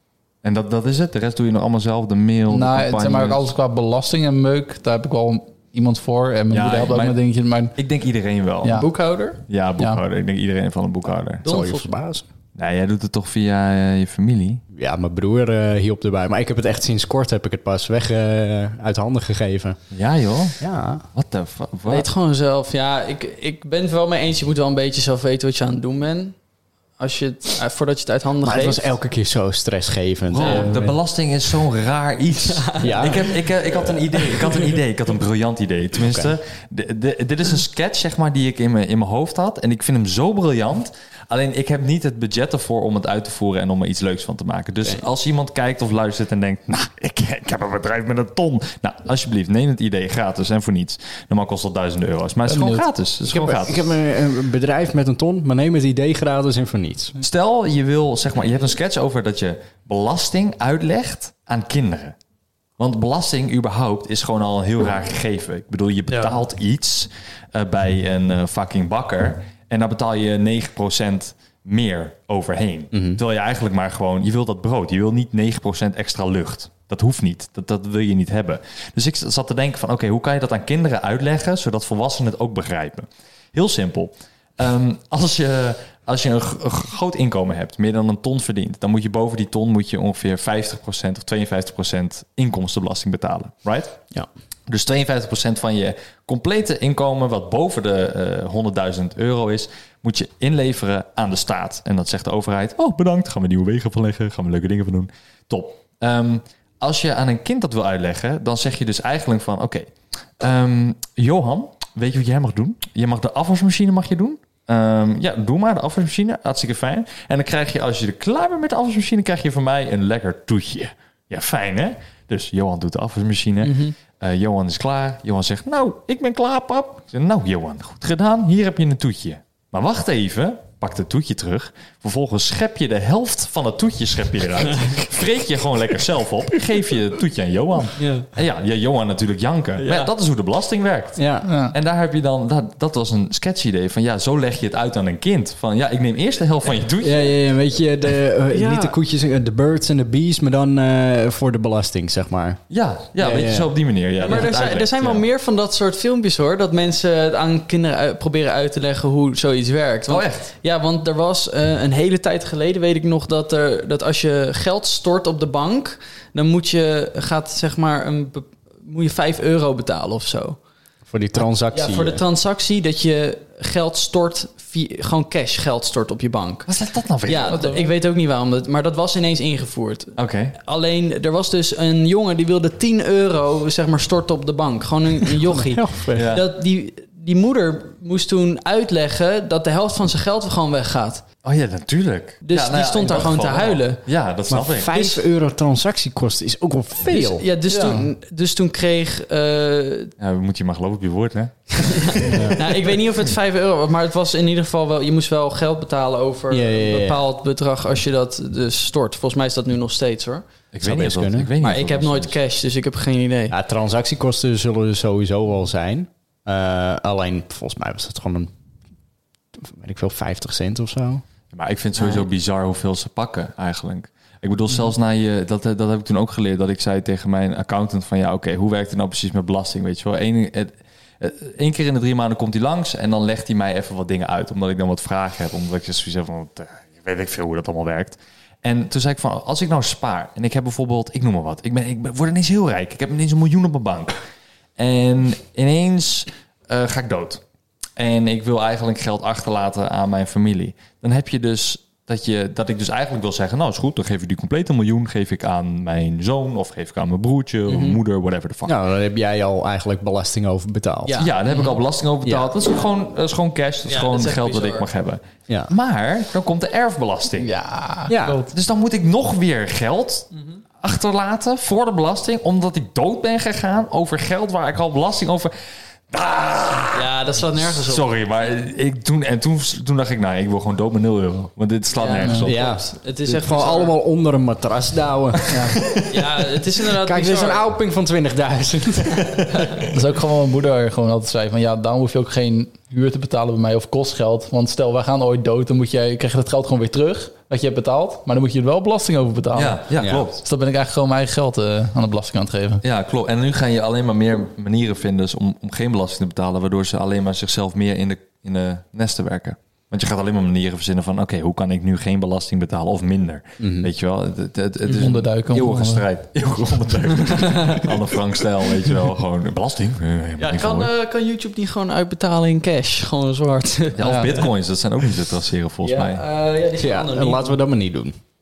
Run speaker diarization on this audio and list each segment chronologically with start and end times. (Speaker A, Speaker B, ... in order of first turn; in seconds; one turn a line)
Speaker A: 0.4-3.5
Speaker B: 2.5-7.7
Speaker A: 6.5-7.2
Speaker A: 7.7-8.8
Speaker B: 8.6-8.9
Speaker C: 8.7-9.4
Speaker A: 9.5-11.4
Speaker C: 11.4-11.9
Speaker D: 11.4-12.2
Speaker A: 12.6-14.6
Speaker D: 14.7-19.8
Speaker A: 19.9-20.6
Speaker D: 20.6-21.0
Speaker A: 21.1-22.1
Speaker C: 21.9-26.4
Speaker C: 27.0-28.8
Speaker D: 28.4-31.0
Speaker A: 30.3-53.9
Speaker C: 30.4-30.7
Speaker C: 32.6-33.2
Speaker D: 32.8-33.3
Speaker B: 52.5-52.9
Speaker D: 53.2-57.1
Speaker A: 57.2-62.1
Speaker A: 62.8-94.0
Speaker C: 66.1-66.4
Speaker D: 72.9-73.2
Speaker A: 94.7-147.4
Speaker C: 123.6-123.9
Speaker C: 138.0-138.3
Speaker C: 139.8-140.1
Speaker D: 141.2-141.5
Speaker B: 141.4-141.7
Speaker D: 147.0-152.6
Speaker C: 148.5-148.9
Speaker A: 152.7-155.2
Speaker D: 153.2-153.7
Speaker C: 154.2-170.6
Speaker A: 160.1-160.5
Speaker D: 171.1-172.2
Speaker C: 171.7-176.7
Speaker A: 176.7-177.6
Speaker C: 177.2-191.2
Speaker B: 177.5-177.9
Speaker A: 180.2-180.6
Speaker D: 185.5-186.3
Speaker A: 186.1-186.4
Speaker A: 191.4-195.2
Speaker C: 192.4-194.0
Speaker D: 194.5-197.4
Speaker C: 197.1-200.1
Speaker A: 197.7-198.1
Speaker A: 200.2-202.6
Speaker C: 201.9-210.4
Speaker D: 206.5-207.2
Speaker A: 210.7-212.3
Speaker D: 210.8-211.5
Speaker C: 211.6-213.5
Speaker D: 213.5-218.5
Speaker D: 219.6-221.2
Speaker A: 221.5-244.2
Speaker C: 222.0-222.2
Speaker A: 244.8-247.4
Speaker A: 248.0-258.8
Speaker C: 257.7-258.0
Speaker D: 258.6-261.1
Speaker C: 261.0-261.7
Speaker A: 261.2-267.5
Speaker C: 263.9-264.9
Speaker B: 267.4-268.5
Speaker D: 268.1-268.4
Speaker A: 268.5-270.3
Speaker C: 270.3-270.6
Speaker A: 270.8-275.5
Speaker A: 276.1-282.7
Speaker C: 276.9-278.1
Speaker C: 281.9-283.9
Speaker D: 282.4-285.6
Speaker B: 285.5-285.8
Speaker C: 286.1-287.7
Speaker D: 286.9-289.3
Speaker B: 289.9-302.8
Speaker A: 299.5-300.4
Speaker D: 300.0-300.3
Speaker A: 302.8-320.9
Speaker D: 313.6-313.9
Speaker B: 314.9-316.1
Speaker C: 320.4-324.3
Speaker A: 323.9-326.2
Speaker B: 324.0-324.3
Speaker C: 325.8-327.6
Speaker D: 326.8-328.2